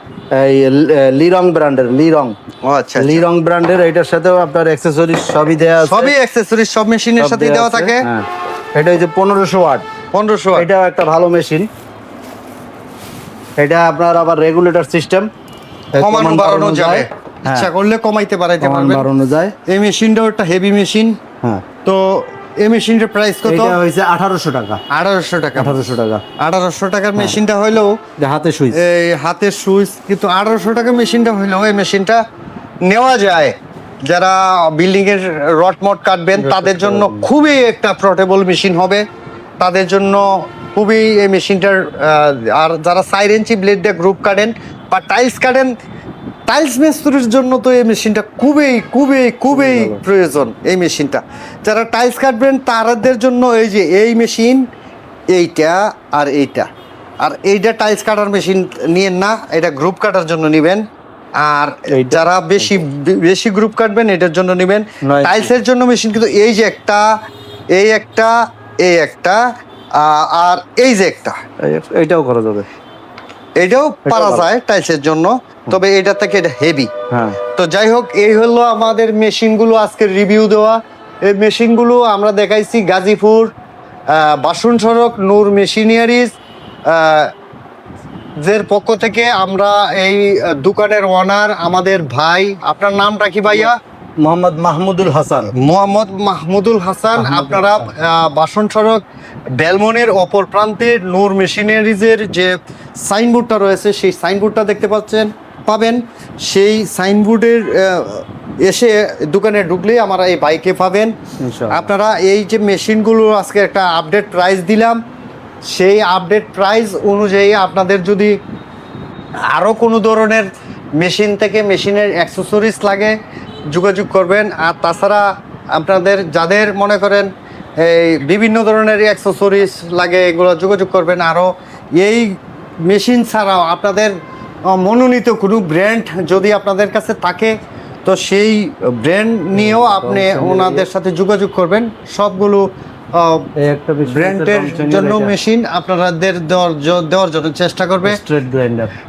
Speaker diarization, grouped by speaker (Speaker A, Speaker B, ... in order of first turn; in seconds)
Speaker A: 0.3-2.4, 3.0-6.1, 7.2-9.8, 10.6-11.7, 13.6-15.3, 15.9-17.7, 18.6-19.5, 23.4-24.8, 25.6-26.2, 28.2-28.8, 36.4-37.3, 49.5-50.0, 61.9-62.8, 65.0-65.5, 71.6-72.7, 74.1-74.5, 77.1-77.4, 94.2-95.5, 97.1-97.9, 111.4-111.9, 139.5-140.9, 143.6-145.3, 148.0-148.9
Speaker B: 2.6-3.2, 5.8-8.0, 10.1-10.7, 16.0-19.1, 19.7-21.2, 21.8-23.8, 24.9-25.8, 26.4-27.9, 28.7-32.2, 32.8-33.5, 34.0-39.0, 39.6-45.7, 46.5-54.6, 55.3-56.7, 57.2-60.8, 61.4-67.0, 67.7-68.3, 68.8-69.4, 70.0-71.3, 73.6-76.9, 77.5-83.5, 84.1-86.3, 86.9-87.3, 88.4-93.7, 95.5-99.0, 99.6-111.1, 111.7-115.0, 115.7-118.3, 119.5-120.5, 121.0-123.2, 123.7-134.1, 134.7-137.5, 138.0-143.5, 144.1-148.2